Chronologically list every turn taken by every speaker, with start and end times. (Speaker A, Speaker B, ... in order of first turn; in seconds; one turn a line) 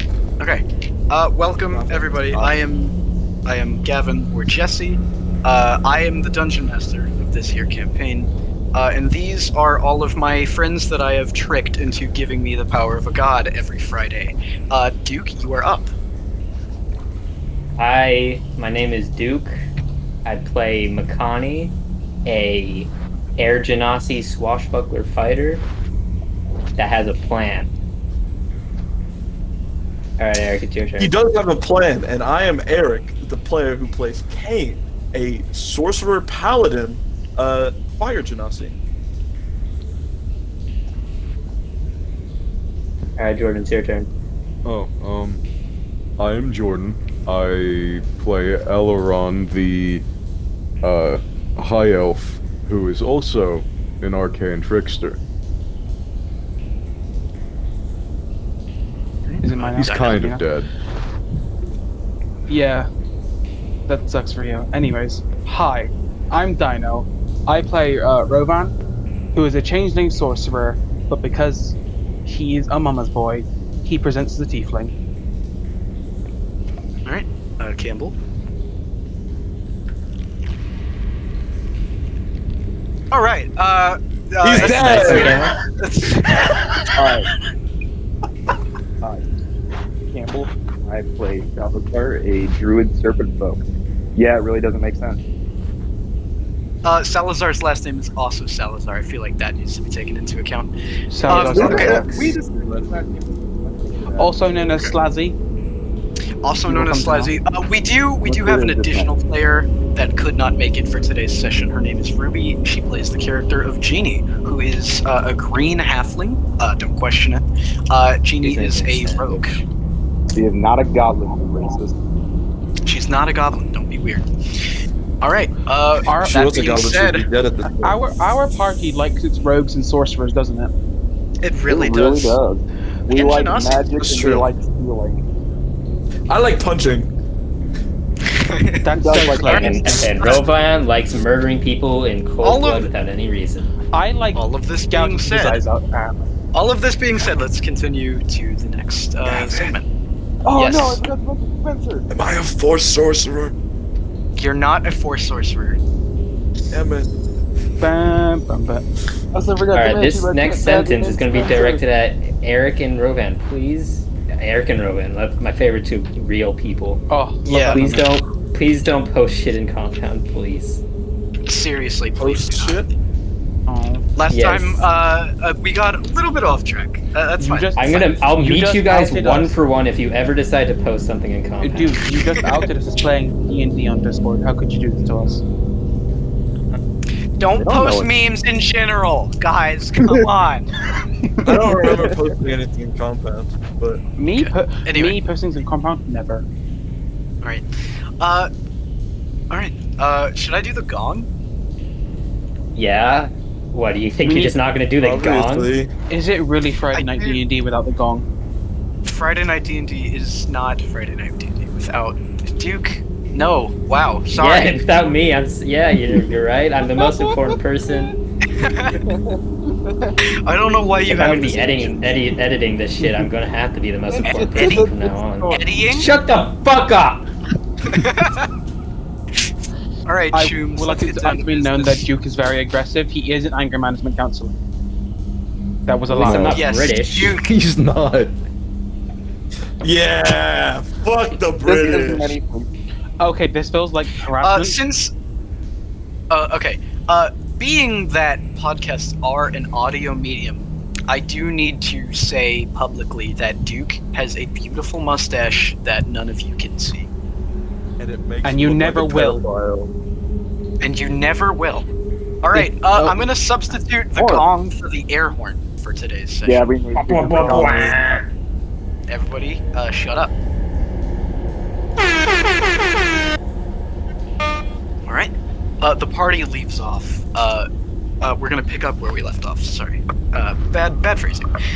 Speaker A: 0.4-15.9
Speaker B: 1.7-2.6
Speaker C: 17.8-19.6
Speaker C: 20.2-21.7
Speaker C: 22.2-25.6
Speaker C: 26.8-27.7
Speaker C: 30.2-31.1
Speaker B: 31.0-38.8
Speaker C: 43.1-44.1
Speaker D: 44.6-45.4
Speaker D: 46.2-50.0
Speaker D: 50.8-55.2
Speaker A: 59.3-60.2
Speaker E: 59.4-60.5
Speaker D: 59.8-60.7
Speaker E: 62.5-62.9
Speaker E: 63.9-68.7
Speaker E: 69.3-74.9
Speaker A: 77.0-78.2
Speaker A: 83.1-87.2
Speaker B: 84.4-85.5
Speaker C: 84.6-85.5
Speaker F: 86.9-87.3
Speaker F: 90.1-93.6
Speaker F: 94.1-95.2
Speaker A: 96.8-100.7
Speaker E: 101.1-102.3
Speaker A: 101.2-102.0
Speaker F: 101.3-104.3
Speaker E: 104.2-105.3
Speaker A: 104.7-104.9
Speaker A: 106.4-119.6
Speaker E: 106.7-107.3
Speaker F: 108.2-109.1
Speaker C: 118.4-119.6
Speaker F: 120.3-122.0
Speaker A: 122.8-127.2
Speaker E: 126.0-126.7
Speaker B: 126.2-128.0
Speaker E: 127.7-130.7
Speaker A: 131.4-132.4
Speaker F: 131.7-135.2
Speaker A: 133.1-133.8
Speaker B: 134.0-134.5
Speaker B: 136.3-137.1
Speaker A: 138.2-138.9
Speaker E: 138.8-140.1
Speaker F: 139.0-140.1
Speaker C: 139.5-143.7
Speaker A: 139.6-140.4
Speaker A: 142.4-142.9
Speaker E: 143.9-146.3
Speaker A: 144.3-145.6
Speaker A: 146.5-149.9
Speaker B: 149.2-149.7
Speaker F: 150.4-152.1
Speaker A: 150.5-151.0
Speaker B: 152.1-153.5
Speaker A: 154.3-155.8
Speaker B: 156.7-157.1
Speaker E: 157.8-158.8
Speaker F: 159.3-161.8
Speaker C: 159.7-167.0
Speaker E: 167.1-168.1
Speaker A: 167.4-167.8
Speaker C: 167.6-170.8
Speaker A: 171.4-172.8
Speaker B: 172.2-172.9
Speaker E: 173.7-174.1
Speaker A: 174.1-177.8
Speaker C: 174.3-174.8
Speaker E: 177.4-179.6
Speaker C: 177.8-182.1
Speaker E: 181.6-185.4
Speaker A: 187.4-190.7
Speaker F: 187.6-188.1
Speaker B: 191.4-194.0
Speaker F: 191.7-192.2
Speaker E: 194.2-196.4
Speaker A: 194.3-195.2
Speaker A: 197.4-197.7
Speaker A: 198.2-198.5
Speaker A: 199.5-201.3
Speaker C: 202.7-205.7
Speaker E: 204.2-204.6
Speaker B: 205.0-205.9
Speaker E: 206.1-208.2
Speaker A: 206.9-207.4
Speaker A: 209.0-214.9
Speaker C: 214.3-218.2
Speaker A: 218.5-219.1
Speaker F: 219.0-220.1
Speaker A: 220.2-222.2
Speaker C: 221.1-227.3
Speaker F: 224.1-225.6
Speaker A: 224.6-224.9
Speaker A: 225.4-226.1
Speaker A: 227.8-228.6
Speaker A: 230.1-232.1
Speaker E: 230.3-234.5
Speaker E: 235.9-236.5
Speaker C: 236.1-237.4
Speaker D: 236.2-236.6
Speaker A: 236.5-237.5
Speaker D: 237.3-238.3
Speaker B: 239.8-242.4
Speaker F: 241.6-242.7
Speaker E: 243.2-244.8
Speaker A: 244.4-245.1
Speaker A: 246.3-257.1
Speaker B: 258.0-259.9
Speaker E: 258.4-259.4
Speaker A: 260.8-261.9
Speaker A: 262.4-266.7
Speaker E: 262.5-263.2
Speaker F: 264.1-264.5
Speaker F: 266.4-268.0
Speaker C: 267.0-268.2
Speaker A: 269.1-270.3
Speaker A: 275.1-277.7
Speaker A: 278.2-281.5